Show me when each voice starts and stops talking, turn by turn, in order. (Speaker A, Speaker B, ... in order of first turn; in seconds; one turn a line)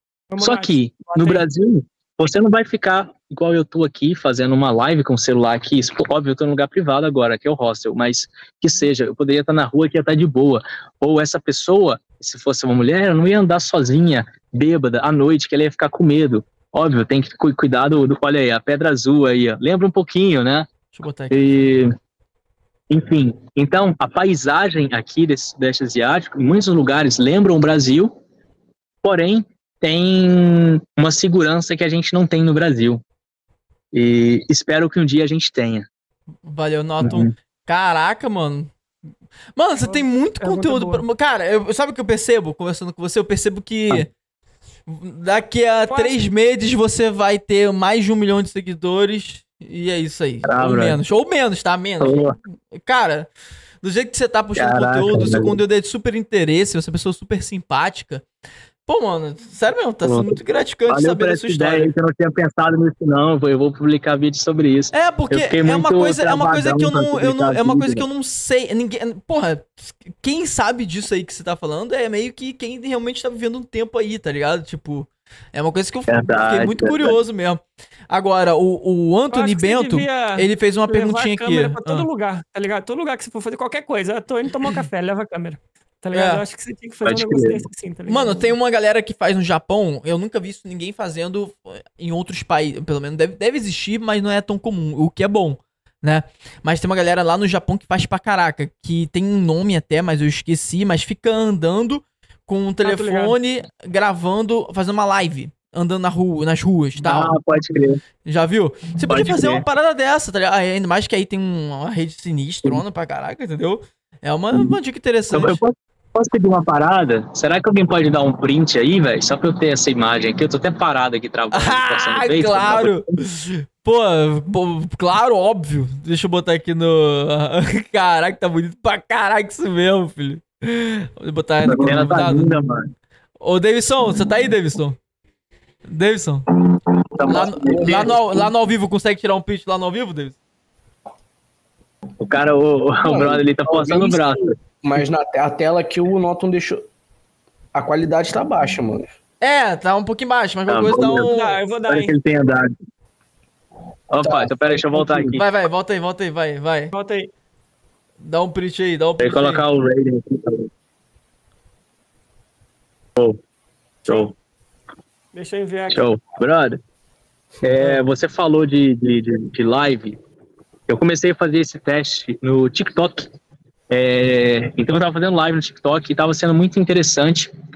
Speaker A: 0.3-1.4
Speaker B: 0.4-20.7
Speaker C: 20.9-21.4
Speaker B: 21.3-21.9
Speaker B: 22.9-28.1
Speaker B: 29.0-33.0
Speaker B: 33.9-35.9
Speaker C: 36.5-38.7
Speaker B: 37.0-37.3
Speaker C: 39.5-44.1
Speaker A: 39.8-41.0
Speaker C: 44.9-53.3
Speaker A: 45.9-46.2
Speaker B: 50.4-51.0
Speaker B: 52.0-52.4
Speaker C: 53.8-58.2
Speaker B: 54.5-55.5
Speaker C: 58.9-61.9
Speaker B: 60.0-68.0
Speaker C: 64.9-82.0
Speaker B: 76.1-77.2
Speaker A: 79.3-88.5
Speaker C: 86.1-86.4
Speaker B: 87.0-87.6
Speaker C: 88.1-107.4
Speaker A: 102.8-103.3
Speaker B: 107.0-108.0
Speaker C: 108.2-115.6
Speaker B: 109.0-109.6
Speaker B: 115.3-123.0
Speaker C: 121.5-132.6
Speaker B: 131.6-132.9
Speaker C: 133.4-135.0
Speaker C: 135.9-136.4
Speaker B: 137.1-138.2
Speaker C: 137.2-140.4
Speaker D: 137.6-138.3
Speaker B: 142.2-144.6
Speaker D: 143.0-146.9
Speaker D: 147.7-149.1
Speaker C: 149.4-151.6
Speaker B: 150.7-151.3
Speaker A: 151.3-152.1
Speaker B: 151.9-152.7
Speaker B: 154.1-155.4
Speaker D: 154.2-155.3
Speaker C: 155.3-156.9
Speaker A: 156.9-157.3
Speaker C: 158.2-159.6
Speaker B: 159.2-160.7
Speaker B: 164.0-164.3
Speaker A: 165.3-166.0
Speaker B: 165.9-166.8
Speaker B: 167.6-170.2
Speaker B: 170.9-173.3
Speaker B: 173.9-177.5